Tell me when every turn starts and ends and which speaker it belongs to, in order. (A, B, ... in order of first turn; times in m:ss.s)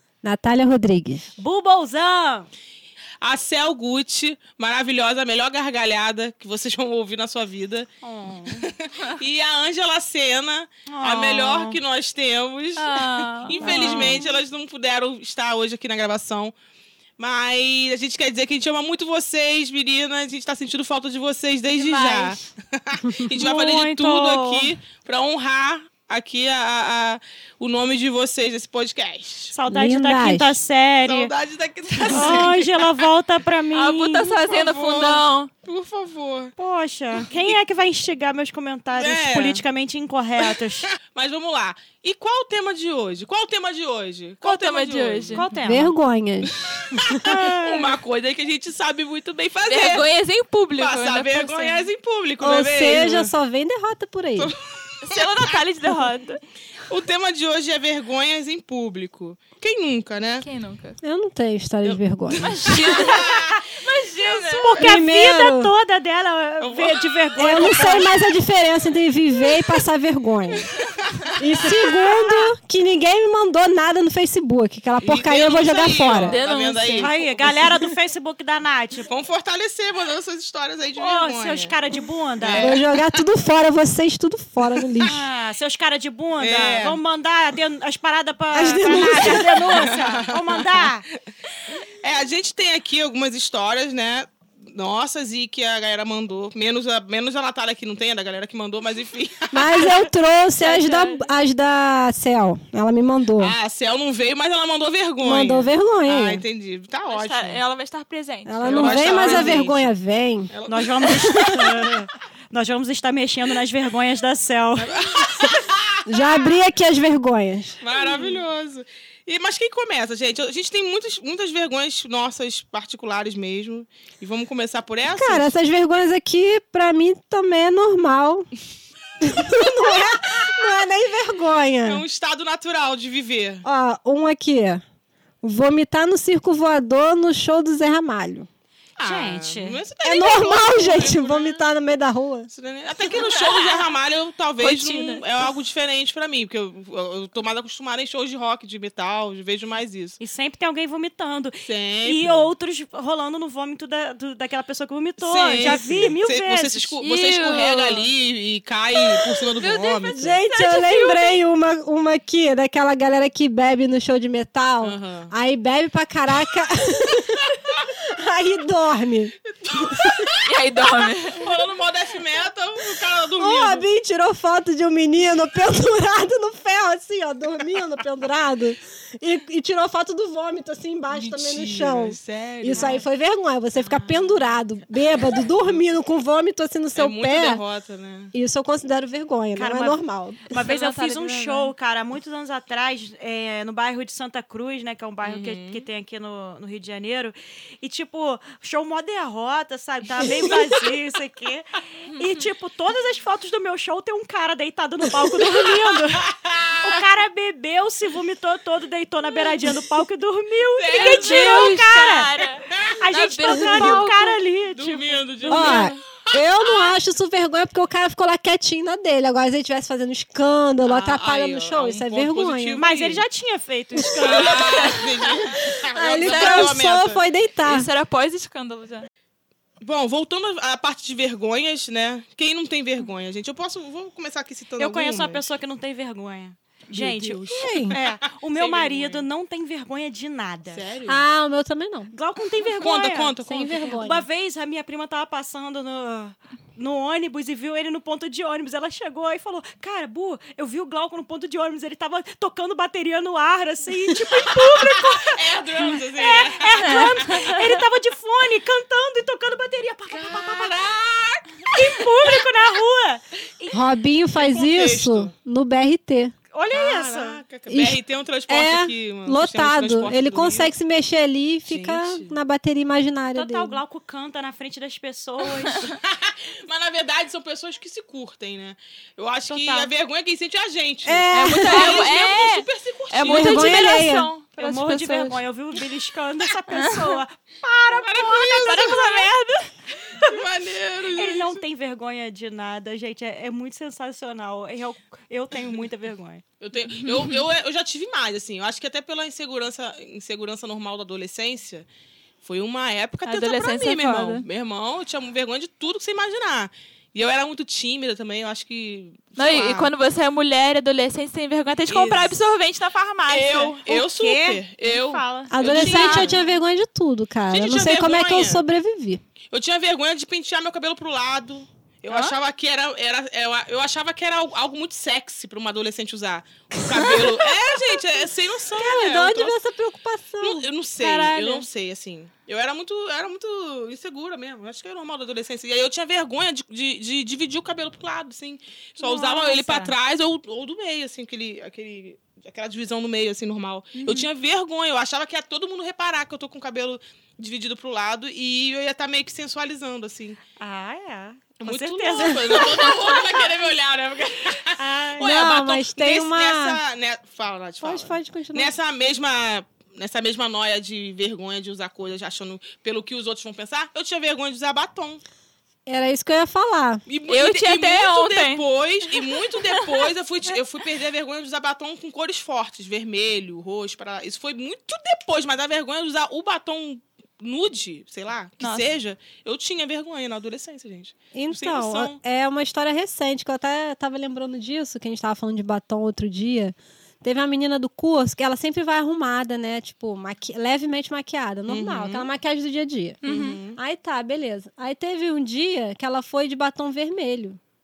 0:00.2-0:01.3 A
0:01.4-0:02.5 B
0:03.2-0:07.9 C
0:08.0-0:08.7 B
0:08.5-0:16.5 C
0:10.9-0:11.8 B
0:12.8-0:14.2 D
0:13.6-0:14.2 B
0:17.2-0:29.6 C
0:21.7-0:22.4 D
0:23.4-0:24.7 B
0:29.5-0:31.3 B
0:29.7-0:30.6 A
0:31.1-0:32.9 C
0:32.1-0:34.3 B
0:32.1-0:32.5 D
0:33.7-0:35.5 D
0:34.4-0:36.5 C
0:36.6-0:40.9 B
0:38.9-0:39.6 C
0:40.4-0:45.5 C
0:44.4-0:45.5 D
0:45.3-0:45.9 B
0:45.6-0:47.1 A
0:46.4-0:50.0 C
0:47.2-0:48.0 B
0:49.7-0:51.9 D
0:50.8-0:53.3 C
0:52.4-0:54.5 A
0:54.4-0:55.6 C
0:55.0-0:56.4 D
0:56.9-1:00.5 C
1:00.4-1:01.0 D
1:01.0-1:02.7 A
1:01.8-1:03.7 C
1:02.4-1:04.7 D
1:04.2-1:04.7 C
1:04.5-1:08.2 B
1:04.8-1:05.7 A
1:06.6-1:07.2 C
1:07.4-1:10.7 A
1:10.5-1:12.5 C
1:11.4-1:16.4 A
1:15.0-1:17.6 C
1:16.2-1:17.1 D
1:17.0-1:19.0 B
1:19.0-1:21.8 C
1:21.0-1:22.8 B
1:22.4-1:23.2 C
1:22.6-1:25.2 A
1:25.0-1:31.1 B
1:26.4-1:27.0 C
1:28.5-1:29.9 A
1:28.8-1:30.9 C
1:32.0-1:40.1 C
1:39.5-1:43.6 A
1:40.6-1:41.2 D
1:43.4-1:47.6 C
1:45.2-1:46.4 A
1:47.1-1:49.6 D
1:48.5-1:50.5 A
1:48.6-1:49.9 C
1:50.5-1:51.6 C
1:50.7-1:54.9 B
1:51.2-1:51.6 A
1:54.8-1:56.5 C
1:56.1-1:57.8 A
1:57.8-2:05.5 C
1:57.9-1:58.4 B
2:05.1-2:08.5 A
2:09.2-2:12.0 A
2:09.2-2:10.1 C
2:11.8-2:13.6 C
2:13.6-2:14.8 A
2:15.4-2:18.5 A
2:19.0-2:21.6 C
2:19.0-2:19.8 B
2:20.0-2:22.5 A
2:22.5-2:30.2 C
2:23.3-2:23.6 D
2:24.6-2:25.2 D
2:30.2-2:37.0 B
2:31.6-2:32.5 C
2:35.2-2:40.3 C
2:35.6-2:36.1 A
2:37.0-2:38.1 D
2:39.0-2:41.4 D
2:40.1-2:50.3 A
2:44.8-2:45.3 C
2:49.5-2:50.5 C
2:50.4-2:51.5 D
2:51.4-2:53.8 C
2:53.4-3:07.6 A
3:01.1-3:03.0 C
3:02.7-3:03.0 B
3:03.8-3:04.5 C
3:05.1-3:05.8 C
3:07.0-3:08.3 C
3:08.3-3:10.5 A
3:09.6-3:26.3 B
3:10.6-3:11.7 D
3:15.2-3:15.9 C
3:22.1-3:22.4 D
3:25.2-3:27.0 C
3:26.8-3:32.3 B
3:30.8-3:31.7 C
3:30.9-3:34.4 D
3:32.4-3:33.0 C
3:33.0-3:35.6 B
3:33.5-3:34.0 A
3:34.8-3:36.9 C
3:35.5-3:35.9 D
3:35.5-3:42.8 A
3:40.8-3:43.2 C
3:42.8-3:45.1 B
3:44.0-3:44.2 A
3:44.2-3:47.2 C
3:44.4-3:44.8 D
3:45.5-3:47.9 A
3:46.2-3:46.7 D
3:47.6-3:49.1 D
3:49.8-3:55.4 C
3:54.8-4:00.8 B
3:56.9-3:59.3 C
3:57.5-3:58.0 A
4:00.7-4:01.2 C
4:01.1-4:02.1 A
4:02.1-4:20.8 B
4:02.7-4:04.0 C
4:03.4-4:04.2 A
4:14.6-4:17.3 C
4:16.8-4:17.8 D
4:20.1-4:22.1 C
4:21.7-4:23.8 B
4:23.7-4:26.3 A
4:24.4-4:25.3 C
4:26.5-4:27.4 B
4:26.7-4:30.7 C
4:27.7-4:28.0 A
4:28.5-4:33.8 A
4:31.7-4:32.4 C
4:33.4-4:35.9 B
4:35.8-4:44.0 C
4:39.5-4:39.9 B
4:41.0-4:42.1 A
4:41.3-4:45.4 D
4:43.3-4:44.3 A
4:44.6-4:50.4 B
4:48.0-4:49.3 C
4:48.7-4:49.4 D
4:50.1-4:51.6 C
4:51.1-4:56.4 B
4:56.6-5:01.9 C
4:57.0-4:57.4 D
5:02.4-5:09.9 C
5:03.3-5:04.4 D
5:09.4-5:13.8 D
5:11.9-5:12.4 C
5:13.3-5:16.4 C
5:13.8-5:16.3 B
5:15.5-5:19.2 A
5:17.5-5:18.6 C
5:19.5-5:29.5 C
5:22.1-5:22.4 B
5:27.0-5:27.3 A
5:28.7-5:31.6 A
5:30.4-5:50.4 C
5:39.0-5:39.9 B
5:44.0-5:44.3 B
5:50.6-5:53.4 B
5:51.6-6:05.2 C
5:54.8-5:55.4 B
5:55.2-5:56.8 A
5:57.8-5:58.7 A
6:05.9-6:07.0 A
6:07.1-6:22.2 C
6:07.3-6:10.1 D
6:18.6-6:18.9 D
6:21.3-6:33.2 A
6:31.7-6:32.3 C
6:33.2-6:33.6 D
6:33.2-6:33.8 C
6:33.7-6:37.6 A